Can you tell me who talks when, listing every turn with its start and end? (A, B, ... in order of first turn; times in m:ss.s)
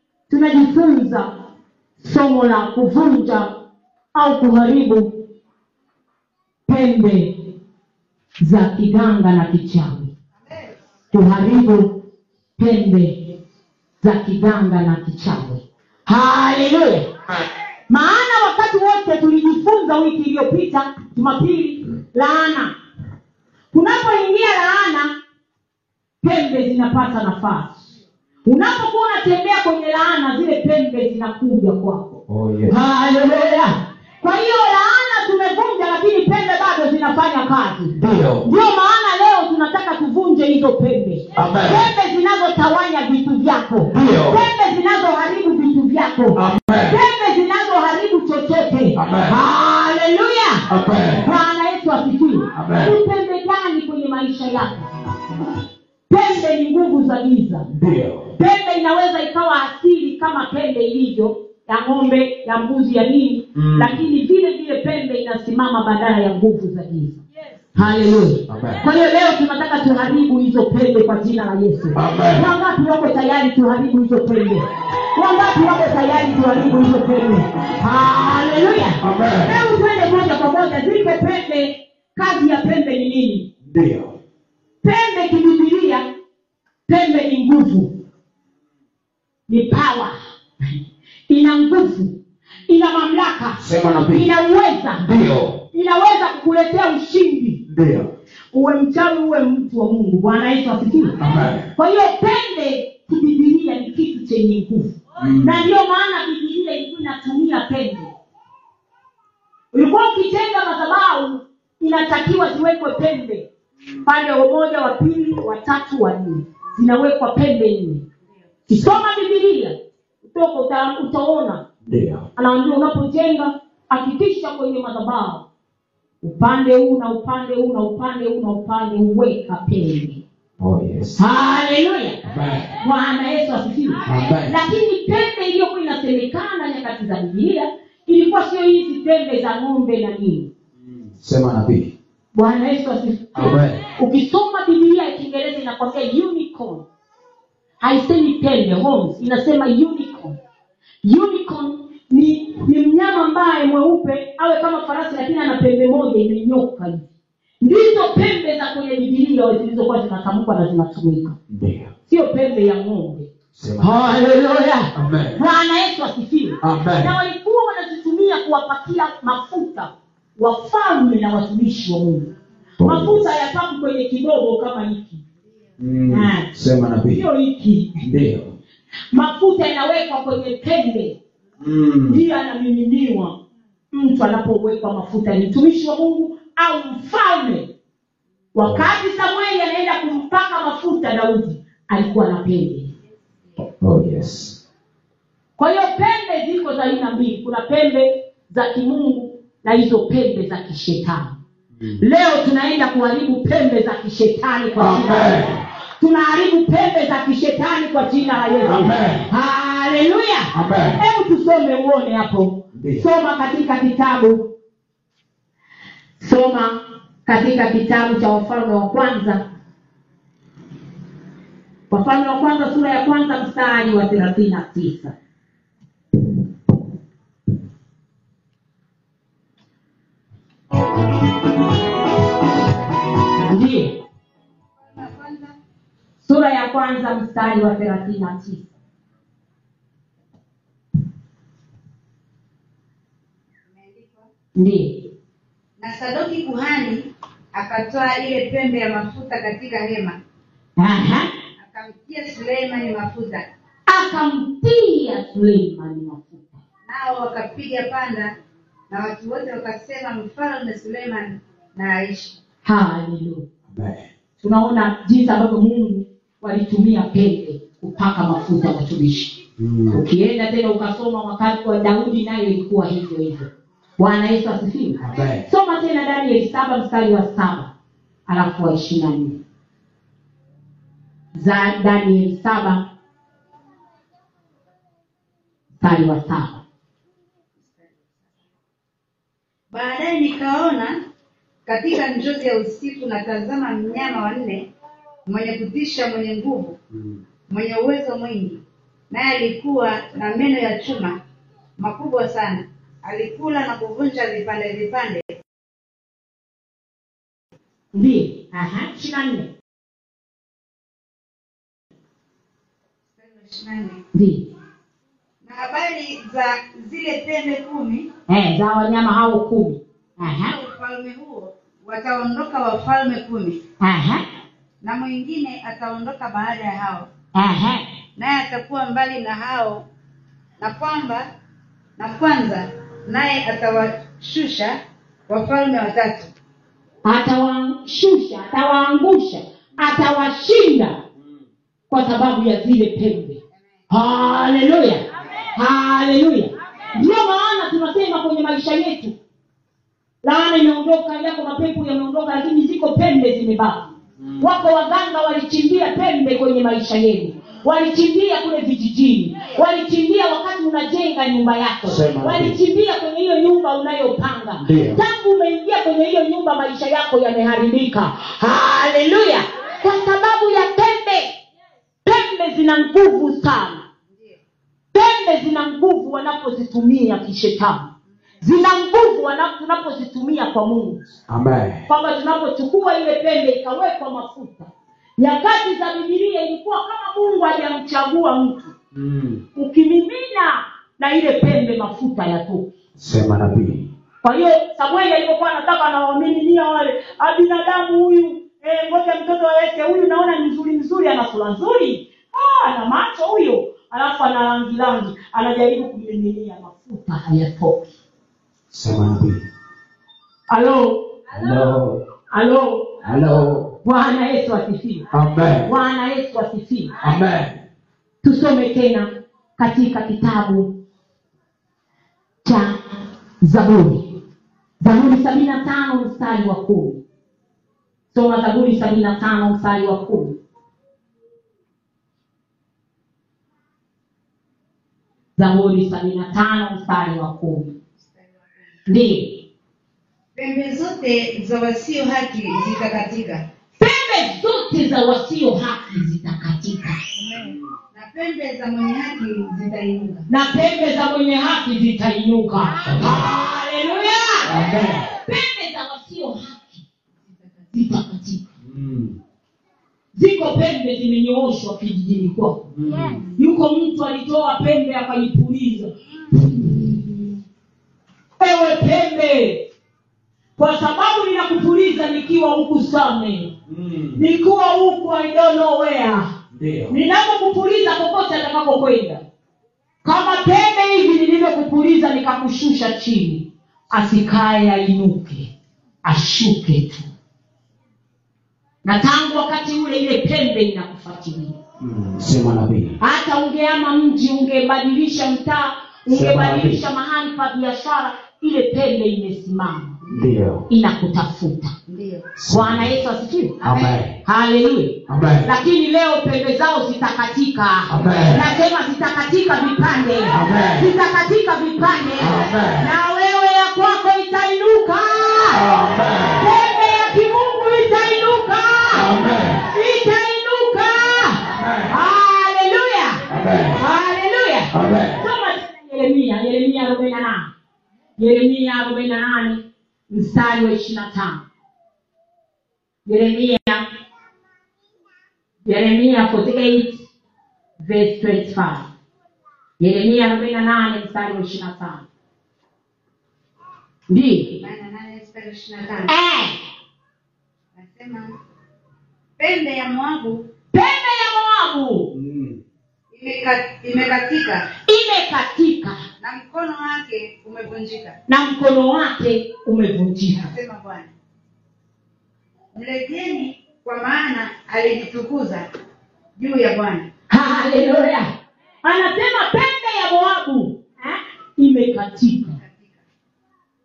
0:00.3-0:01.3 A
0:02.0-0:03.5 A
0:04.1-0:05.3 A
0:06.7-0:07.5 A
0:08.4-0:10.1 A
0:11.1-0:12.0 A
0:12.6-0:13.4 A
0:14.0-0:17.1 A
0:17.9-0:22.7 A
0:23.7-0:25.2 A
0:26.2-0:27.9 A
0:28.4-0:32.1 A
0:32.3-0:32.7 B
0:32.7-0:50.7 A
0:38.0-0:38.4 B
0:41.4-0:41.9 B
0:43.9-0:44.4 B
0:46.3-0:47.0 B
0:48.9-0:49.4 B
0:50.7-0:51.3 B
0:51.2-0:54.9 A
0:52.5-0:53.0 B
0:56.1-0:57.7 A
0:57.7-0:58.3 B
0:58.3-1:07.2 A
1:03.5-1:04.0 B
1:07.7-1:23.5 A
1:08.5-1:08.8 B
1:11.9-1:12.5 B
1:19.0-1:19.6 B
1:23.6-1:24.2 B
1:24.8-1:26.1 A
1:26.9-1:28.0 A
1:29.5-1:30.1 A
1:31.3-1:35.1 A
1:33.6-1:34.3 B
1:35.0-1:35.6 B
1:35.7-1:37.6 A
1:37.7-1:38.1 B
1:38.5-1:41.2 A
1:41.2-1:41.7 B
1:41.7-1:48.1 A
1:45.2-1:45.7 B
1:49.7-1:53.4 A
1:54.0-1:58.0 A
1:58.7-2:01.6 A
1:58.7-1:59.0 B
2:01.8-2:02.2 B
2:02.4-2:05.4 A
2:06.2-2:10.2 A
2:10.6-2:11.2 B
2:11.2-2:20.5 A
2:12.3-2:12.7 B
2:14.0-2:14.6 B
2:20.8-2:21.9 B
2:22.3-2:26.8 A
2:23.3-2:23.8 B
2:27.8-2:30.4 A
2:31.0-2:37.1 A
2:37.6-2:41.4 A
2:41.5-2:41.9 B
2:42.1-2:52.3 A
2:43.5-2:44.0 B
2:44.9-2:45.4 B
2:46.6-2:47.1 B
2:52.8-2:53.4 B
2:52.8-2:55.2 A
2:55.8-2:57.2 B
2:56.1-2:56.5 A
2:57.1-2:58.0 A
2:58.0-2:58.5 B
2:59.1-3:01.2 A
3:01.6-3:02.2 B
3:02.1-3:03.4 A
3:03.9-3:07.7 A
3:08.5-3:12.9 A
3:13.6-3:14.6 B
3:15.6-3:21.4 A
3:22.0-3:25.5 A
3:24.8-3:25.6 B
3:26.0-3:34.5 A
3:28.6-3:29.3 B
3:30.5-3:31.0 B
3:32.7-3:33.0 B
3:36.2-3:39.4 A
3:41.9-3:45.1 A
3:53.4-3:54.0 A
3:54.8-3:55.6 C
3:56.2-3:58.7 A
4:03.7-4:04.3 C
4:04.5-4:05.0 A
4:05.8-4:10.2 C
4:10.8-4:11.3 A
4:11.6-4:13.4 C
4:13.9-4:16.6 A
4:16.8-4:18.3 C
4:18.9-4:22.4 C
4:22.6-4:23.5 A
4:23.7-4:24.1 B
4:24.4-4:29.4 A
4:29.6-4:30.0 B
4:29.9-4:37.7 A
4:35.0-4:35.4 B
4:38.3-4:39.4 A
4:41.3-4:42.9 A
4:45.8-4:46.6 A
4:49.7-4:51.0 C
4:51.6-4:54.6 C
4:55.2-4:56.8 C
4:56.9-4:57.2 B
4:57.5-5:01.2 C
5:01.8-5:05.2 C
5:07.9-5:09.5 A
5:13.2-5:14.0 C
5:14.1-5:14.5 A
5:15.4-5:18.1 C
5:18.3-5:20.5 A
5:20.4-5:23.6 C
5:23.8-5:24.2 A
5:24.8-5:27.1 C
5:27.3-5:27.8 A
5:28.2-5:29.8 C
5:30.6-5:31.3 C
5:32.0-5:36.3 C
5:37.0-5:41.0 A
5:41.9-5:43.4 A
5:43.9-5:45.0 A
5:45.5-5:49.2 A
5:50.2-6:11.4 A
5:54.2-5:54.4 B
6:01.8-6:02.6 B
6:04.6-6:05.0 B
6:12.0-6:13.8 A
6:14.9-6:17.9 A
6:18.4-6:21.2 A
6:21.3-6:21.8 B
6:21.9-6:28.7 A
6:28.9-6:29.4 B
6:29.5-6:32.7 A
6:33.0-6:33.9 B
6:34.2-6:47.9 A
6:48.7-6:49.4 B
6:50.5-6:51.2 A
6:51.3-6:52.0 B
6:52.3-6:53.0 A
6:53.0-6:53.7 B
6:53.8-6:55.1 A
6:55.1-6:55.7 B
6:55.6-6:56.9 A
6:57.0-6:57.6 B
6:58.2-7:00.8 A
7:02.4-7:02.8 A
7:03.4-7:04.1 A
7:04.8-7:07.0 A
7:08.1-7:10.4 A
7:15.4-7:17.8 A
7:18.9-7:19.4 A
7:20.3-7:23.4 C
7:23.8-7:27.0 A
7:27.2-7:30.3 C
7:30.3-7:34.5 A
7:32.9-7:33.3 B
7:34.4-7:35.0 B
7:35.1-7:36.8 A
7:37.7-7:38.4 A
7:38.6-7:39.2 B
7:40.1-7:42.7 A
7:42.7-7:43.2 B
7:43.0-7:43.3 C
7:43.3-7:45.9 A
7:48.4-7:49.6 A
7:50.6-7:53.5 A
7:53.7-7:54.2 B
7:54.2-7:56.3 A
7:56.5-7:57.0 B
7:56.9-7:59.2 A
8:00.0-8:05.5 A
8:06.0-8:07.1 A
8:08.8-8:11.6 A
8:11.8-8:13.0 B
8:13.0-8:20.0 A
8:16.1-8:16.8 B
8:20.1-8:20.7 B
8:20.7-8:21.7 A
8:21.9-8:22.3 C
8:22.4-8:23.0 B
8:22.5-8:23.6 A
8:23.6-8:24.2 B
8:24.2-8:35.6 A
8:25.1-8:25.5 B
8:27.9-8:28.4 B
8:30.3-8:30.9 B
8:32.2-8:32.9 B
8:35.5-8:36.5 B
8:36.4-8:39.1 A
8:38.9-8:39.7 B
8:39.7-8:47.5 A
8:41.4-8:41.9 B
8:43.3-8:43.8 B
8:44.7-8:45.2 B
8:48.2-8:51.4 A
8:53.0-8:53.8 A
8:55.6-8:57.1 A
8:57.8-8:58.9 A
8:59.8-9:02.0 A
9:04.1-9:04.6 A
9:04.6-9:06.1 C
9:06.1-9:06.6 A
9:07.7-9:08.4 C
9:09.4-9:10.5 C
9:10.7-9:12.1 A
9:12.1-9:12.6 B
9:13.1-9:14.7 C
9:14.8-9:16.0 A
9:16.2-9:18.2 C
9:18.3-9:20.5 A
9:20.3-9:21.1 C
9:22.7-9:25.7 C
9:26.4-9:27.1 C
9:27.3-9:28.3 A
9:28.8-9:32.6 A
9:32.6-9:33.0 C